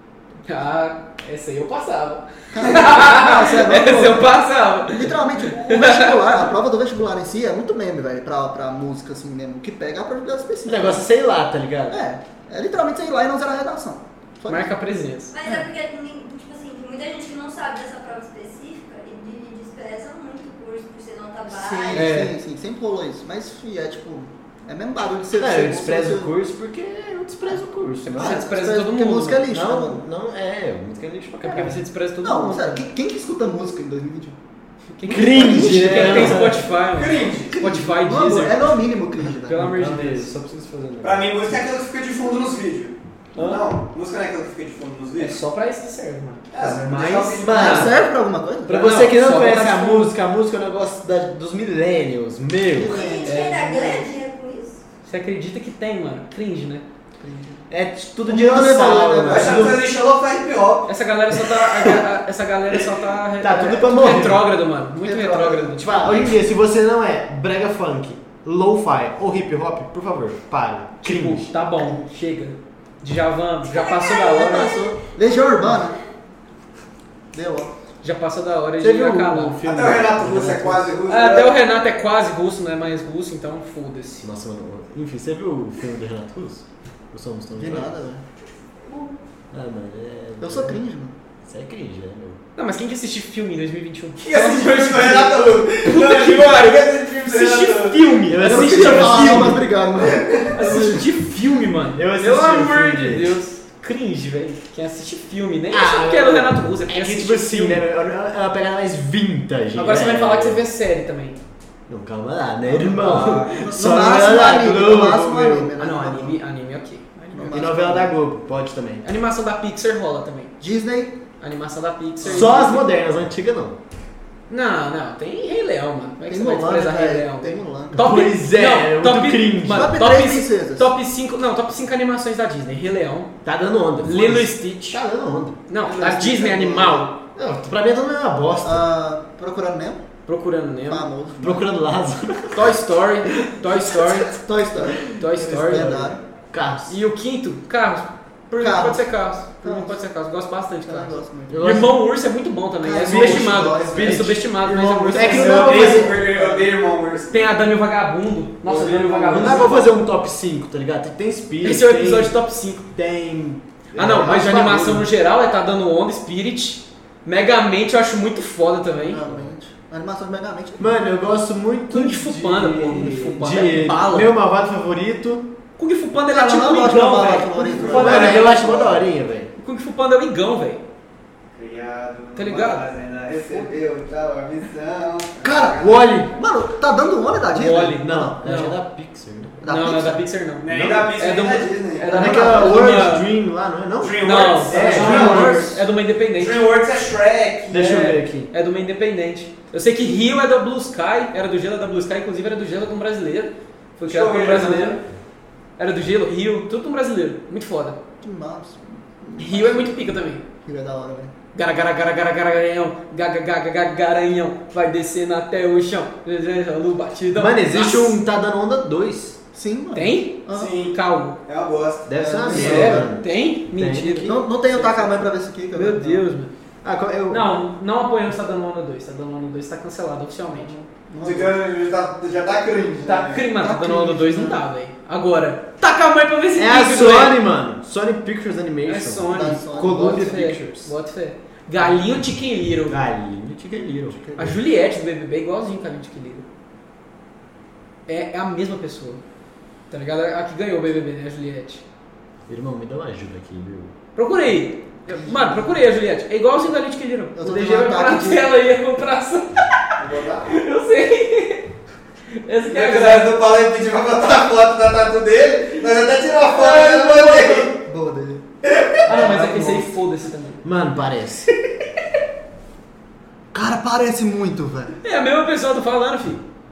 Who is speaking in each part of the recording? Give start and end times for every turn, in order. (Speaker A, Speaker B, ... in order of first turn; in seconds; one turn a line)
Speaker A: 0.5-6.2
Speaker B: 2.5-11.0
Speaker C: 10.7-12.0
Speaker B: 11.9-14.7
Speaker A: 14.5-15.3
Speaker D: 15.3-22.1
Speaker B: 21.5-26.3
Speaker A: 21.9-22.4
Speaker C: 25.4-28.4
Speaker A: 28.1-29.5
Speaker B: 28.1-30.1
Speaker C: 29.5-31.8
Speaker A: 31.4-32.8
Speaker B: 32.2-34.4
Speaker A: 35.0-38.7
Speaker C: 35.1-36.6
Speaker B: 35.1-36.5
Speaker E: 36.9-37.6
Speaker B: 37.5-39.7
Speaker A: 39.4-40.3
Speaker C: 39.5-41.5
Speaker E: 41.0-45.4
Speaker A: 43.4-43.6
Speaker A: 45.2-48.0
Speaker E: 46.5-47.8
Speaker C: 47.4-48.0
Speaker B: 47.5-48.9
Speaker A: 48.7-50.1
Speaker C: 48.7-53.0
Speaker B: 52.7-54.0
Speaker D: 52.8-54.8
Speaker A: 53.2-54.0
Speaker A: 55.0-56.9
Speaker B: 57.2-57.7
Speaker C: 57.7-59.8
Speaker B: 58.3-59.9
Speaker E: 59.2-60.9
Speaker A: 60.9-66.2
Speaker C: 61.7-62.0
Speaker C: 63.4-64.5
Speaker B: 65.0-66.2
Speaker C: 65.8-71.5
Speaker A: 71.0-74.7
Speaker D: 73.7-75.0
Speaker B: 74.1-76.0
Speaker B: 77.3-77.7
Speaker A: 78.0-79.6
Speaker C: 78.8-81.0
Speaker E: 79.6-81.6
Speaker A: 81.1-84.3
Speaker C: 84.2-87.9
Speaker B: 87.6-88.2
Speaker C: 89.5-90.8
Speaker B: 90.4-91.2
Speaker C: 91.4-92.4
Speaker A: 92.6-99.6
Speaker E: 94.2-98.1
Speaker C: 98.3-99.7
Speaker B: 98.4-101.0
Speaker E: 100.0-100.5
Speaker A: 100.5-107.8
Speaker C: 102.0-103.4
Speaker C: 105.7-110.6
Speaker A: 109.8-111.4
Speaker C: 111.9-115.7
Speaker E: 112.8-113.7
Speaker A: 113.0-113.5
Speaker B: 113.0-116.4
Speaker A: 115.8-117.6
Speaker B: 117.3-118.1
Speaker C: 117.5-119.1
Speaker A: 119.0-120.6
Speaker B: 120.6-121.2
Speaker A: 121.4-122.8
Speaker C: 122.2-123.8
Speaker B: 122.2-122.6
Speaker A: 124.5-133.3
Speaker B: 126.3-128.1
Speaker C: 127.9-130.0
Speaker B: 129.7-130.9
Speaker C: 133.4-135.6
Speaker A: 134.0-135.0
Speaker A: 135.7-137.2
Speaker B: 135.8-137.1
Speaker C: 137.3-138.9
Speaker B: 138.6-140.0
Speaker A: 140.3-141.1
Speaker B: 140.8-141.7
Speaker C: 141.4-142.8
Speaker A: 142.5-144.3
Speaker C: 143.3-143.6
Speaker B: 144.3-146.2
Speaker C: 144.9-147.0
Speaker A: 145.1-146.1
Speaker A: 146.9-156.1
Speaker B: 148.6-150.0
Speaker B: 150.9-151.8
Speaker C: 151.5-152.0
Speaker B: 152.8-154.3
Speaker C: 153.0-156.2
Speaker E: 154.9-157.5
Speaker B: 155.8-156.6
Speaker A: 157.3-159.9
Speaker E: 158.6-159.8
Speaker C: 159.3-162.4
Speaker A: 161.6-163.2
Speaker C: 163.0-165.1
Speaker A: 163.9-169.2
Speaker B: 169.0-170.9
Speaker C: 170.8-175.5
Speaker A: 171.9-174.3
Speaker A: 175.8-178.8
Speaker B: 176.3-178.5
Speaker E: 177.7-179.0
Speaker C: 177.9-179.5
Speaker A: 179.6-180.8
Speaker E: 181.5-186.2
Speaker A: 182.3-182.9
Speaker B: 185.4-188.4
Speaker C: 185.8-186.3
Speaker A: 187.5-188.8
Speaker C: 188.0-189.6
Speaker B: 189.6-190.3
Speaker A: 189.7-193.3
Speaker E: 190.6-192.7
Speaker C: 190.7-191.2
Speaker C: 192.1-195.8
Speaker B: 192.2-192.8
Speaker E: 194.0-195.8
Speaker A: 194.2-196.7
Speaker E: 196.3-198.0
Speaker C: 197.7-198.5
Speaker A: 197.7-205.0
Speaker E: 204.1-205.1
Speaker A: 205.8-208.0
Speaker B: 208.2-210.1
Speaker A: 209.4-210.4
Speaker B: 210.7-211.3
Speaker A: 211.5-218.2
Speaker C: 217.3-219.4
Speaker B: 219.5-220.8
Speaker A: 219.9-221.4
Speaker E: 220.5-222.9
Speaker C: 222.1-224.4
Speaker B: 222.2-223.1
Speaker A: 222.5-226.5
Speaker B: 224.2-226.2
Speaker C: 226.8-227.6
Speaker A: 227.3-230.7
Speaker B: 230.5-231.6
Speaker E: 231.2-233.5
Speaker A: 233.1-237.4
Speaker B: 233.5-234.7
Speaker C: 236.6-240.9
Speaker A: 238.8-243.0
Speaker B: 239.3-240.4
Speaker C: 241.8-242.2
Speaker C: 242.9-244.2
Speaker B: 244.1-244.6
Speaker A: 244.4-246.5
Speaker A: 248.1-249.2
Speaker A: 249.9-251.8
Speaker C: 252.5-253.9
Speaker A: 254.2-259.9
Speaker B: 255.1-255.7
Speaker B: 257.4-258.5
Speaker E: 260.0-260.6
Speaker A: 260.4-261.7
Speaker A: 262.4-263.4
Speaker E: 262.7-267.8
Speaker B: 266.5-268.5
Speaker E: 268.6-269.9
Speaker A: 269.1-270.6
Speaker C: 270.6-271.5
Speaker B: 273.5-274.9
Speaker A: 275.0-276.4